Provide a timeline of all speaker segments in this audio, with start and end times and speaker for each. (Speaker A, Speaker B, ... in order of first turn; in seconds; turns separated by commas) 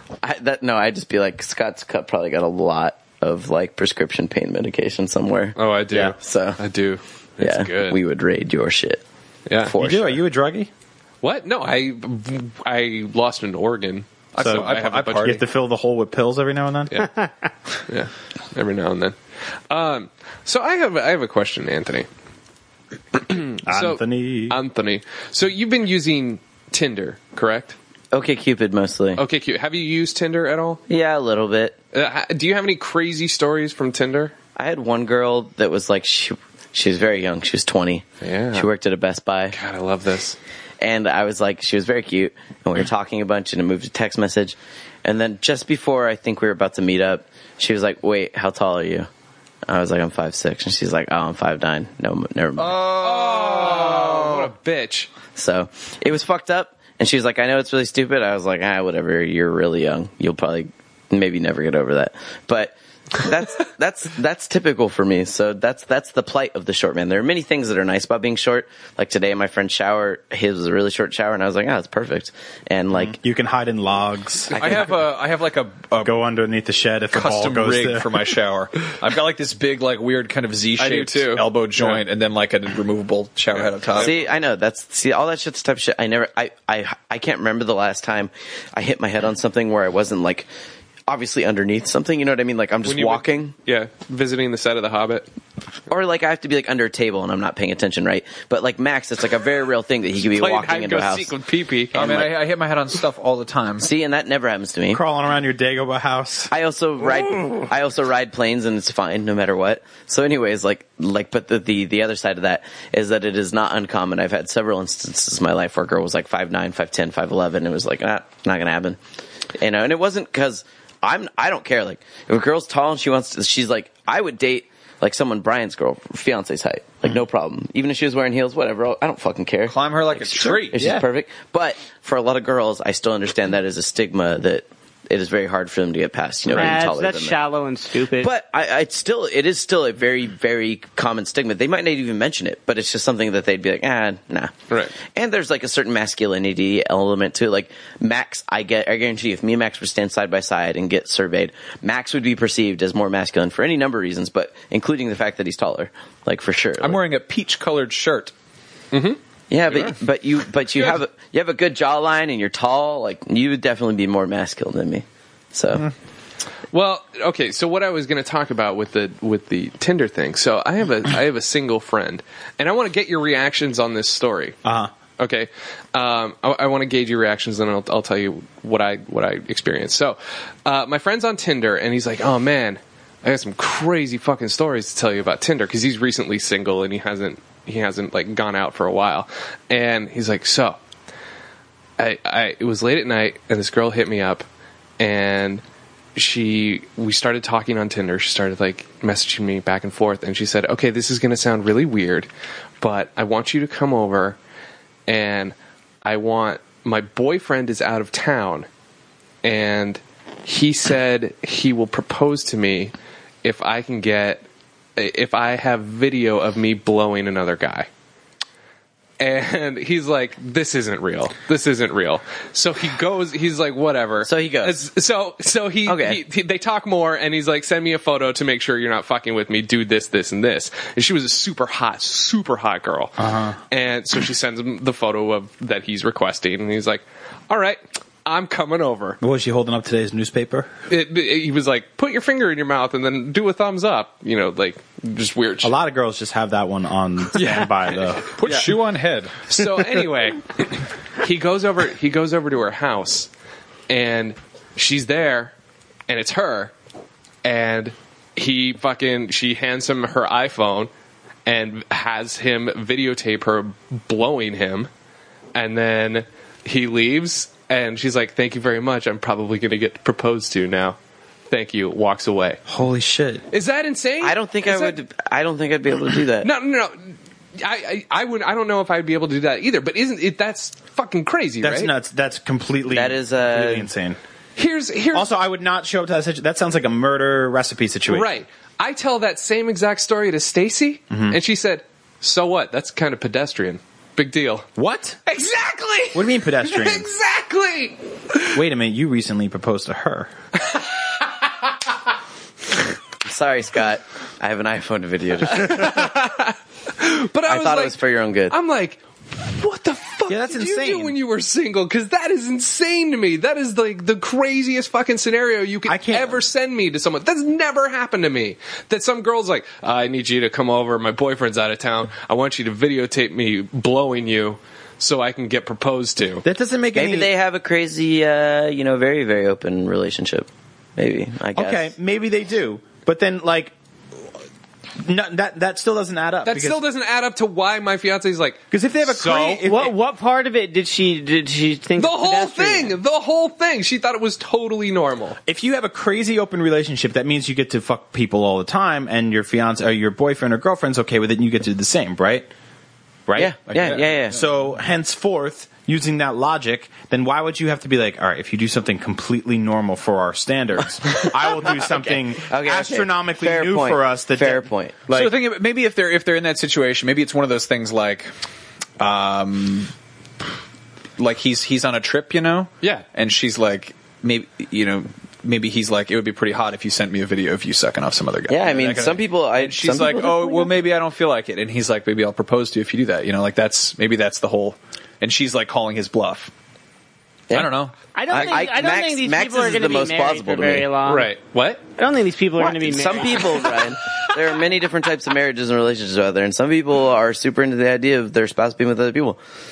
Speaker A: 0.2-5.6, Speaker B: 5.5-8.0, Speaker A: 6.1-6.6, Speaker A: 7.4-9.0, Speaker B: 9.5-9.7, Speaker A: 9.6-10.2, Speaker C: 9.7-10.7, Speaker B: 11.2-15.4, Speaker D: 14.3-15.4, Speaker C: 14.4-16.9, Speaker B: 17.9-19.1, Speaker B: 19.7-22.1, Speaker B: 23.1-27.8, Speaker C: 23.6-24.6, Speaker A: 28.1-29.2, Speaker B: 29.1-30.8, Speaker A: 30.9-31.8, Speaker B: 31.9-34.3, Speaker A: 34.6-39.5, Speaker B: 38.2-38.7, Speaker B: 39.5-40.4, Speaker A: 40.8-49.1, Speaker A: 49.7-52.8, Speaker D: 52.6-54.5, Speaker B: 52.8-55.1, Speaker A: 55.4-73.2, Speaker C: 72.9-74.9, Speaker A: 74.5-74.9, Speaker D: 74.5-76.2, Speaker C: 76.0-78.2, Speaker D: 77.1-84.2, Speaker B: 80.8-82.0, Speaker B: 83.5-84.2, Speaker A: 83.9-90.5, Speaker A: 91.1-93.5, Speaker B: 92.8-95.3, Speaker A: 95.9-101.3, Speaker B: 100.3-102.3, Speaker D: 101.9-103.9, Speaker A: 102.0-102.2, Speaker A: 103.8-105.0, Speaker C: 104.9-106.5, Speaker A: 106.5-119.0, Speaker A: 119.6-137.4, Speaker D: 129.7-130.9, Speaker C: 130.5-131.0, Speaker E: 136.5-138.3, Speaker A: 138.2-157.0, Speaker D: 156.8-158.3, Speaker B: 158.9-159.9, Speaker A: 159.5-165.9, Speaker B: 166.7-174.6, Speaker C: 174.6-174.9, Speaker B: 175.2-190.8, Speaker B: 192.0-194.4, Speaker B: 195.0-195.6, Speaker B: 196.2-202.3, Speaker B: 202.8-204.4, Speaker B: 205.1-208.7, Speaker B: 209.4-212.9, Speaker B: 213.4-214.4, Speaker B: 214.9-217.9, Speaker B: 219.2-233.2, Speaker A: 224.2-224.8, Speaker A: 225.8-226.2, Speaker C: 233.2-233.6, Speaker B: 233.7-239.2, Speaker C: 239.2-240.7, Speaker B: 240.9-245.7, Speaker C: 245.6-248.4, Speaker D: 247.3-249.4, Speaker B: 248.4-248.7, Speaker B: 249.5-253.3, Speaker B: 253.9-255.5, Speaker B: 256.1-256.7, Speaker B: 257.4-260.9, Speaker B: 261.4-264.9, Speaker B: 265.5-271.0, Speaker B: 271.5-272.6, Speaker C: 272.7-273.4, Speaker B: 273.5-275.0, Speaker A: 274.2-276.5, Speaker B: 276.4-281.9, Speaker C: 281.6-284.2, Speaker A: 282.9-283.9, Speaker B: 284.6-285.3, Speaker C: 285.1-288.3, Speaker B: 288.1-294.6, Speaker C: 291.1-291.4, Speaker C: 294.8-295.2, Speaker B: 295.2-298.6, Speaker C: 296.1-297.1, Speaker C: 298.5-300.3, Speaker B: 300.6-301.5, Speaker A: 303.2-306.1, Speaker B: 305.5-308.0, Speaker A: 307.5-308.5, Speaker B: 308.5-326.4, Speaker C: 310.3-311.1, Speaker C: 315.9-316.4, Speaker C: 326.4-327.3, Speaker A: 326.9-331.9, Speaker C: 331.5-333.7, Speaker C: 335.0-336.8, Speaker B: 336.4-339.5, Speaker C: 338.7-339.9, Speaker E: 339.3-343.0, Speaker B: 342.0-345.4, Speaker C: 345.4-352.5, Speaker C: 353.3-365.3, Speaker A: 353.4-354.4, Speaker D: 353.7-354.0, Speaker A: 361.7-365.0, Speaker D: 365.1-368.3, Speaker D: 369.0-369.9, Speaker D: 371.2-386.5, Speaker A: 378.5-380.7, Speaker D: 387.5-387.9, Speaker E: 388.1-391.3, Speaker A: 388.3-390.9, Speaker B: 391.1-391.8, Speaker E: 391.9-393.7, Speaker A: 392.6-399.4